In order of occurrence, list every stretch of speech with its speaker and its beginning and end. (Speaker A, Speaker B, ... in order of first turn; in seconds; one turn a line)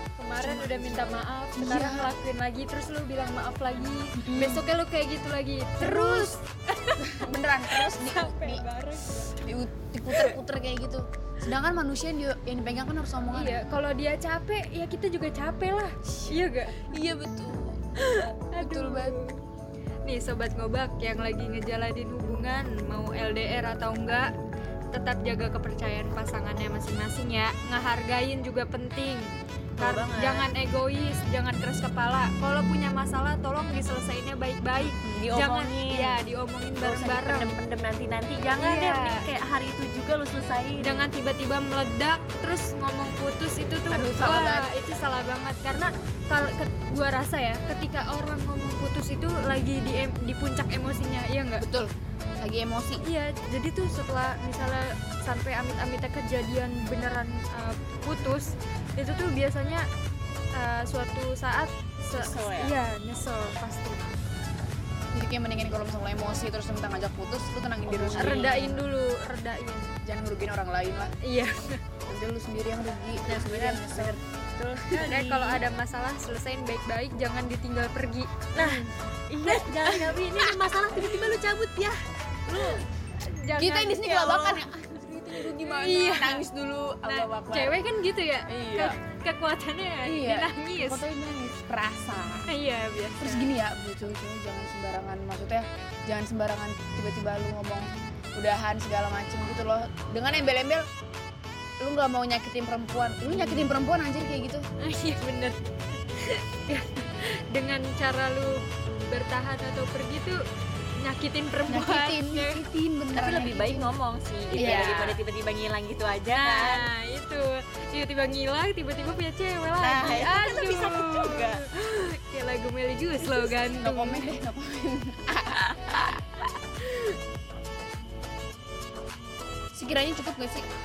Speaker A: 0.2-7.2
Speaker B: 0.4-2.1
Speaker B: 4.1-4.8
Speaker B: 5.8-6.4
Speaker B: 7.0-8.7
Speaker A: 7.7-9.5
Speaker B: 9.3-13.6
Speaker A: 13.3-16.9
Speaker B: 16.8-17.9
Speaker A: 18.0-19.4
Speaker B: 18.6-19.2
Speaker A: 20.1-24.3
Speaker A: 24.9-37.6
Speaker C: 29.8-30.5
Speaker C: 35.0-36.2
Speaker C: 36.8-41.1
Speaker A: 38.5-39.3
Speaker A: 40.8-51.6
Speaker B: 43.9-44.7
Speaker B: 51.6-53.0
Speaker A: 53.0-59.9
Speaker A: 60.5-64.0
Speaker C: 62.1-62.7
Speaker B: 65.1-68.8
Speaker C: 67.9-68.6
Speaker A: 68.2-69.9
Speaker B: 70.0-71.1
Speaker A: 71.2-71.8
Speaker B: 72.1-74.2
Speaker C: 73.3-75.6
Speaker A: 75.0-78.9
Speaker C: 78.5-81.4
Speaker A: 79.4-84.1
Speaker C: 82.5-82.8
Speaker B: 83.6-87.8
Speaker C: 84.0-84.6
Speaker A: 85.4-86.4
Speaker A: 87.0-91.0
Speaker B: 88.5-89.0
Speaker B: 90.0-92.5
Speaker A: 92.5-93.5
Speaker B: 93.2-100.9
Speaker B: 101.8-104.6
Speaker A: 103.3-103.7
Speaker A: 104.8-105.6
Speaker A: 106.1-110.4
Speaker A: 111.0-112.6
Speaker B: 111.7-113.9
Speaker C: 113.1-116.9
Speaker A: 114.5-115.0
Speaker B: 114.6-115.2
Speaker A: 116.3-124.3
Speaker C: 119.8-121.6
Speaker B: 123.2-126.2
Speaker A: 126.8-127.1
Speaker B: 129.7-130.6